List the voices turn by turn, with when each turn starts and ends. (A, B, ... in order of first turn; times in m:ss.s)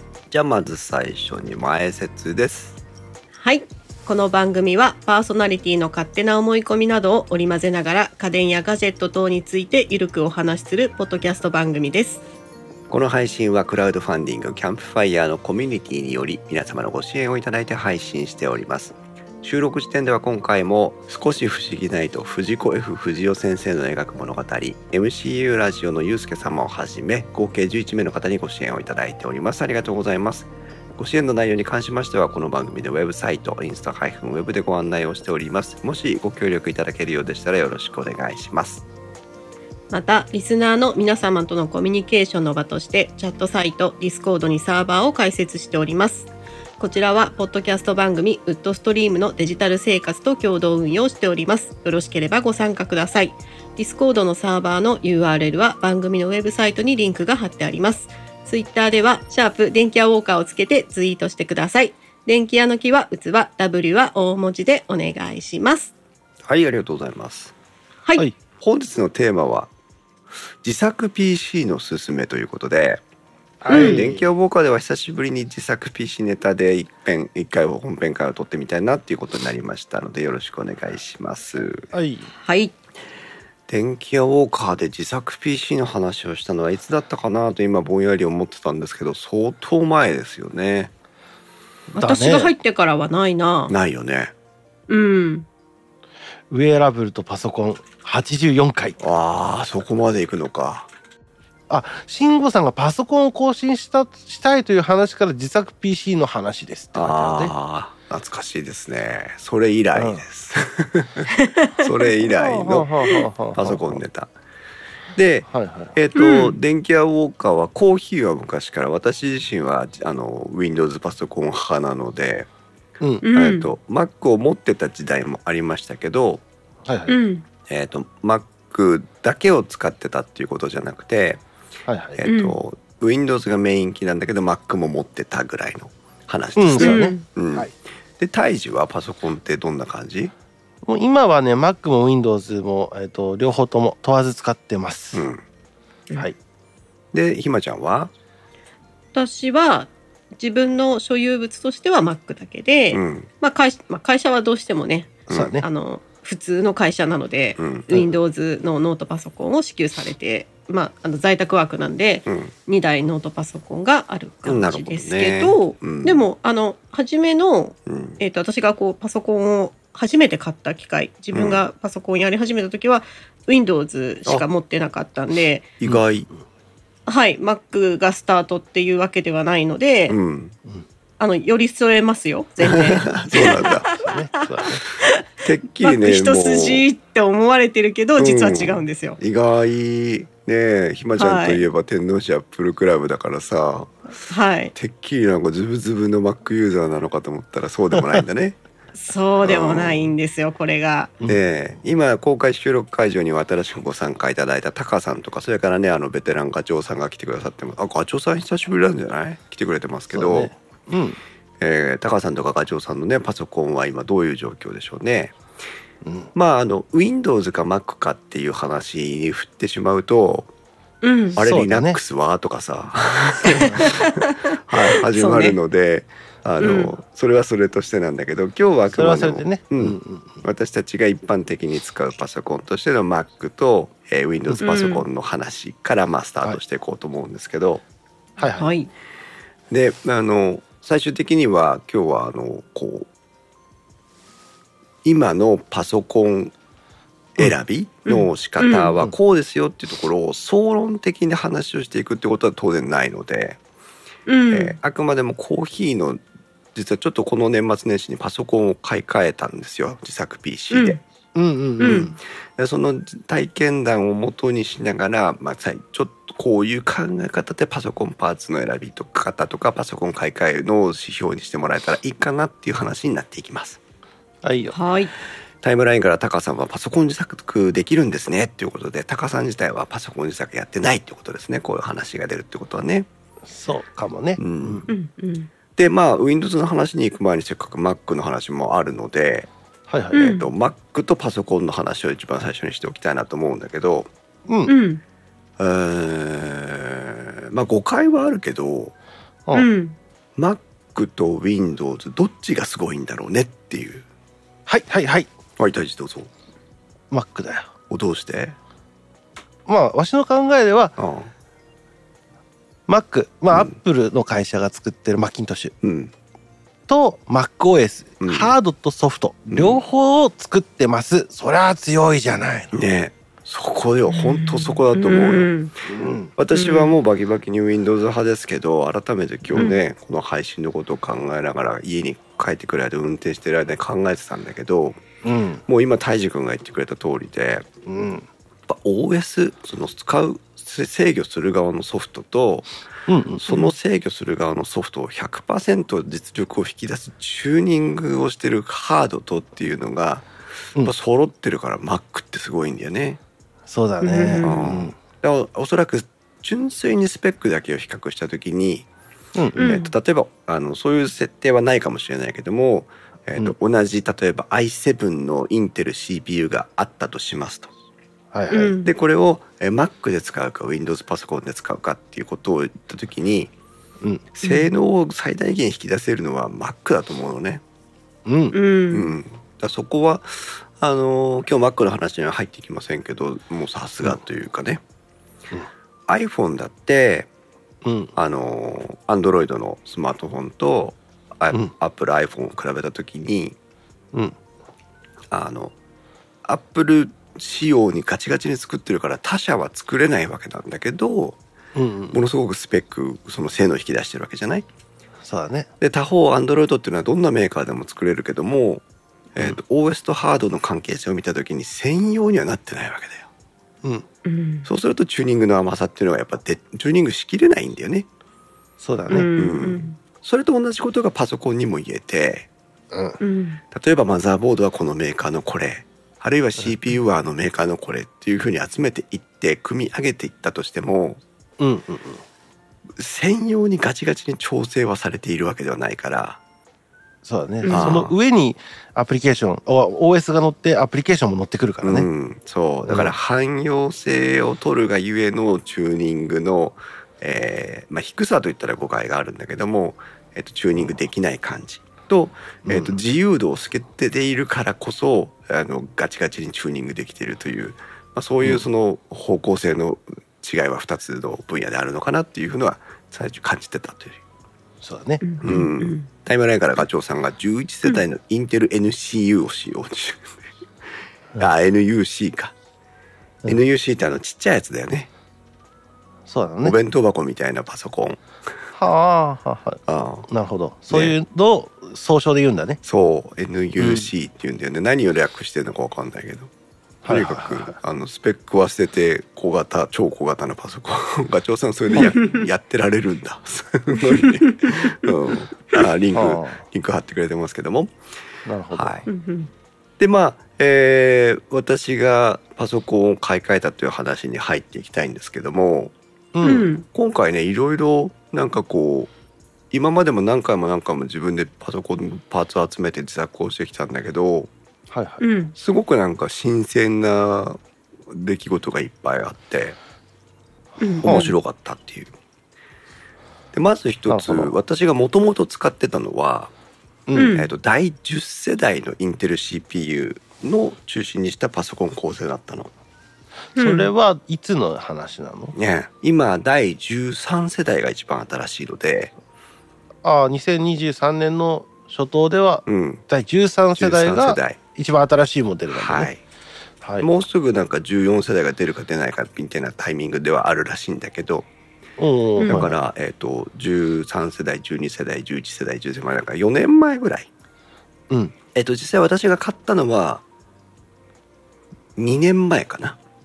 0:00.3-0:02.8 A
0:03.4-0:12.2 B
0:12.9-0:38.8 A
0:39.9-1:05.9 B
1:06.5-1:07.5 A
1:08.6-1:09.7 A
1:10.6-1:13.0 A
1:13.6-1:21.9 A
1:13.7-1:14.2 C
1:13.7-1:14.0 B
1:21.9-1:22.3 C
1:22.4-1:22.7 B
1:23.7-1:30.9 A
1:31.9-1:33.7 B
1:32.0-1:32.5 C
1:33.7-1:34.3 A
1:34.9-1:35.5 B
1:36.5-1:39.0 C
1:39.0-1:40.9 A
1:41.7-1:47.5 C
1:46.9-1:54.3 A
1:50.0-1:50.2 C
1:51.4-1:51.9 B
1:52.3-1:54.0 C
1:55.2-2:02.5 A
1:55.5-1:55.9 C
1:56.2-1:56.6 B
2:03.2-2:03.7 B
2:03.3-2:06.4 A
2:06.9-2:07.2 C
2:07.1-2:07.4 B
2:07.7-2:11.4 A
2:11.9-2:12.2 C
2:12.2-2:20.3 A
2:12.2-2:12.6 B
2:16.6-2:17.7 C
2:16.8-2:17.2 B
2:20.9-2:25.3 C
2:25.1-2:25.4 A
2:27.1-2:28.1 A
2:29.1-2:55.7 B
2:32.9-2:33.3 A
2:35.3-2:35.6 A
2:35.3-2:35.7 C
2:37.6-2:38.1 A
2:44.4-2:46.3 A
2:47.9-2:48.2 A
2:51.3-2:51.6 A
2:55.8-2:56.3 A
2:57.1-3:00.2 B
3:00.1-3:00.5 A
3:01.2-3:04.2 B
3:02.6-3:03.9 A
3:03.9-3:04.8 C
3:05.0-3:05.2 B
3:05.4-3:06.8 A
3:05.8-3:09.2 B
3:08.2-3:13.9 A
3:11.2-3:11.6 B
3:14.3-3:14.7 B
3:14.8-3:18.6 A
3:19.0-3:21.1 B
3:19.4-3:20.1 A
3:21.2-3:30.5 A
3:30.1-3:31.2 C
3:31.6-3:35.4 A
3:36.0-3:36.3 C
3:36.4-3:40.5 A
3:41.0-3:41.4 B
3:41.3-3:57.8 A
3:41.4-3:42.0 C
3:43.4-3:45.6 B
3:46.6-3:46.9 B
3:48.9-3:50.4 C
3:54.5-3:55.0 B
3:58.4-3:58.7 C
3:58.5-3:58.9 B
3:59.7-4:03.1 A
4:05.0-4:06.5 A
4:07.4-4:13.6 A
4:08.1-4:08.9 B
4:14.3-4:14.8 B
4:14.5-4:16.2 A
4:16.8-4:21.0 A
4:20.7-4:21.0 B
4:21.4-4:22.2 C
4:21.8-4:22.1 B
4:21.8-4:33.8 A
4:34.4-4:34.8 C
4:34.7-4:35.1 B
4:35.6-4:43.1 A
4:43.5-4:44.9 C
4:44.4-4:44.8 A
4:44.9-4:45.5 B
4:45.8-4:49.5 A
4:49.9-4:50.3 C
4:50.1-4:50.5 B
4:50.1-4:54.1 A
4:54.7-4:55.0 B
4:55.6-4:58.9 A
4:59.5-5:00.0 B
5:00.4-5:04.0 A
5:04.7-5:05.3 C
5:05.6-5:06.3 A
5:07.1-5:07.7 C
5:07.9-5:08.6 A
5:09.7-5:11.0 C
5:11.0-5:11.3 A
5:12.9-5:15.7 C
5:15.8-5:16.1 A
5:16.9-5:22.7 C
5:18.2-5:18.5 A
5:19.5-5:19.8 A
5:22.7-5:25.5 A
5:24.1-5:25.7 B
5:25.9-5:26.3 C
5:26.4-5:35.0 A
5:26.5-5:27.0 B
5:29.6-5:29.8 B
5:35.2-5:35.6 C
5:35.7-5:37.7 A
5:37.9-5:38.3 C
5:38.7-5:42.7 A
5:43.1-5:43.4 C
5:43.4-5:50.3 A
5:50.8-5:53.2 A
5:53.7-5:55.0 C
5:54.0-5:54.6 B
5:54.4-5:58.9 A
5:59.4-5:59.7 C
5:59.6-6:07.7 A
5:59.6-5:59.9 B
6:08.3-6:08.8 C
6:08.5-6:08.9 B
6:08.8-6:13.5 A
6:14.4-6:17.6 A
6:14.4-6:14.7 B
6:18.3-6:18.6 C
6:18.5-6:19.1 B
6:18.9-6:24.8 A
6:26.1-6:27.3 A
6:27.8-6:28.1 C
6:28.2-6:33.6 A
6:35.3-6:35.7 A
6:36.5-6:41.4 A
6:41.8-6:42.2 C
6:42.1-6:44.7 A
6:45.2-6:45.7 C
6:45.8-6:48.8 A
6:49.4-6:53.3 A
6:54.2-6:54.7 B
6:54.6-6:58.1 A
6:58.8-6:59.3 C
6:59.1-7:00.0 B
6:59.4-7:02.5 A
7:02.9-7:03.2 C
7:03.2-7:03.6 B
7:03.7-7:11.2 A
7:11.6-7:12.2 C
7:13.0-7:16.4 A
7:17.2-7:22.1 C
7:17.6-7:18.0 B
7:17.7-7:18.1 A
7:21.8-7:44.2 A
7:22.9-7:23.1 C
7:44.8-7:45.6 C
7:45.2-7:46.1 B
7:45.4-7:50.4 A
7:51.4-7:52.5 A
7:53.5-7:55.1 A
7:56.3-7:56.8 C
7:56.6-7:58.2 A
7:58.8-8:02.8 C
7:59.9-8:00.3 A
8:00.9-8:01.2 A
8:02.8-8:06.5 A
8:03.8-8:04.1 C
8:07.0-8:07.8 C
8:07.1-8:17.9 A
8:12.0-8:12.5 B
8:14.1-8:15.1 B
8:16.1-8:16.6 C
8:18.5-8:19.0 C
8:18.7-8:19.0 A
8:19.1-8:19.5 B
8:20.0-8:25.9 A
8:26.3-8:26.7 C
8:26.4-8:26.9 B
8:26.9-8:29.1 A
8:29.7-8:34.5 A
8:34.9-8:35.2 C
8:35.2-8:35.6 B
8:35.6-8:39.8 A
8:40.8-8:41.3 B
8:41.0-8:41.3 C
8:41.0-8:42.1 A
8:43.5-8:46.5 A
8:44.1-8:44.5 C
8:47.1-8:47.4 C
8:47.1-8:47.5 B
8:47.3-8:52.7 A
8:53.6-8:53.9 B
8:53.6-8:55.6 C
8:55.6-8:59.1 A
9:00.0-9:06.1 C
9:02.7-9:03.0 A
9:03.8-9:04.6 A
9:05.7-9:06.2 A
9:06.8-9:07.1 C
9:07.0-9:11.5 A
9:12.0-9:12.8 C
9:12.4-9:12.6 B
9:12.4-9:17.3 A
9:18.5-9:20.2 A
9:22.0-9:23.0 A